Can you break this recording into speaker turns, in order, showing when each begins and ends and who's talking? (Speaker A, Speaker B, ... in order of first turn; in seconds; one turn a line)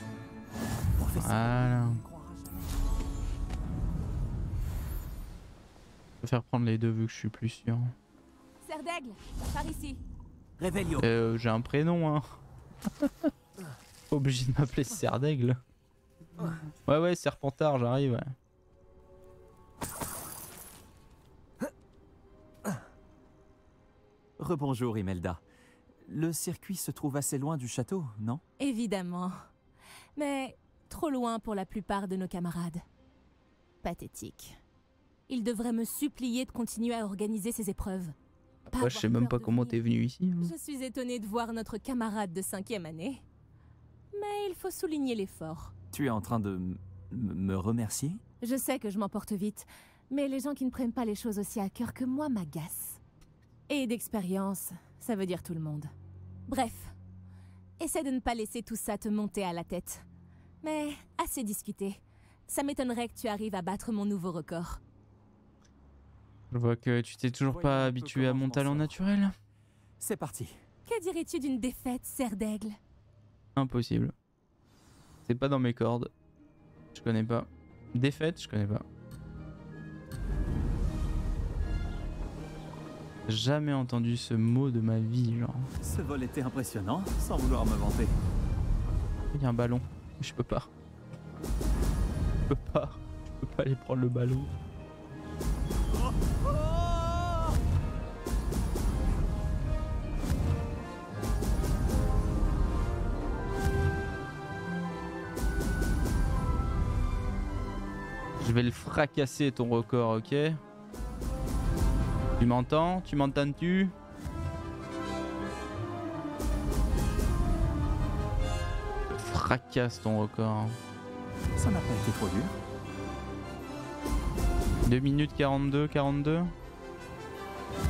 Speaker A: 1.0-2.5
Speaker B: 1.1-2.0
Speaker B: 6.2-7.9
Speaker C: 8.6-10.0
Speaker B: 11.0-12.4
Speaker B: 13.0-13.3
Speaker B: 14.1-15.6
Speaker B: 16.9-18.4
Speaker A: 24.4-25.4
Speaker A: 26.0-28.4
Speaker C: 28.6-29.5
Speaker C: 30.2-32.8
Speaker C: 33.8-34.6
Speaker C: 35.3-38.1
Speaker C: 38.7-39.8
Speaker B: 38.7-40.5
Speaker C: 40.4-43.2
Speaker C: 44.1-45.7
Speaker A: 45.9-48.2
Speaker C: 48.4-53.0
Speaker C: 53.7-55.9
Speaker C: 56.5-56.9
Speaker C: 57.8-60.1
Speaker C: 60.6-64.8
Speaker B: 66.5-69.3
Speaker A: 67.5-69.0
Speaker A: 70.0-70.6
Speaker C: 70.9-72.8
Speaker B: 73.6-74.2
Speaker B: 75.3-76.1
Speaker B: 76.9-78.8
Speaker B: 83.3-85.7
Speaker A: 85.8-88.2
Speaker B: 89.3-90.7
Speaker B: 92.5-94.5
Speaker A: 96.6-97.2
Speaker B: 108.4-110.6
Speaker B: 112.4-113.9
Speaker B: 119.1-120.8
Speaker A: 121.6-122.5
Speaker B: 124.8-126.5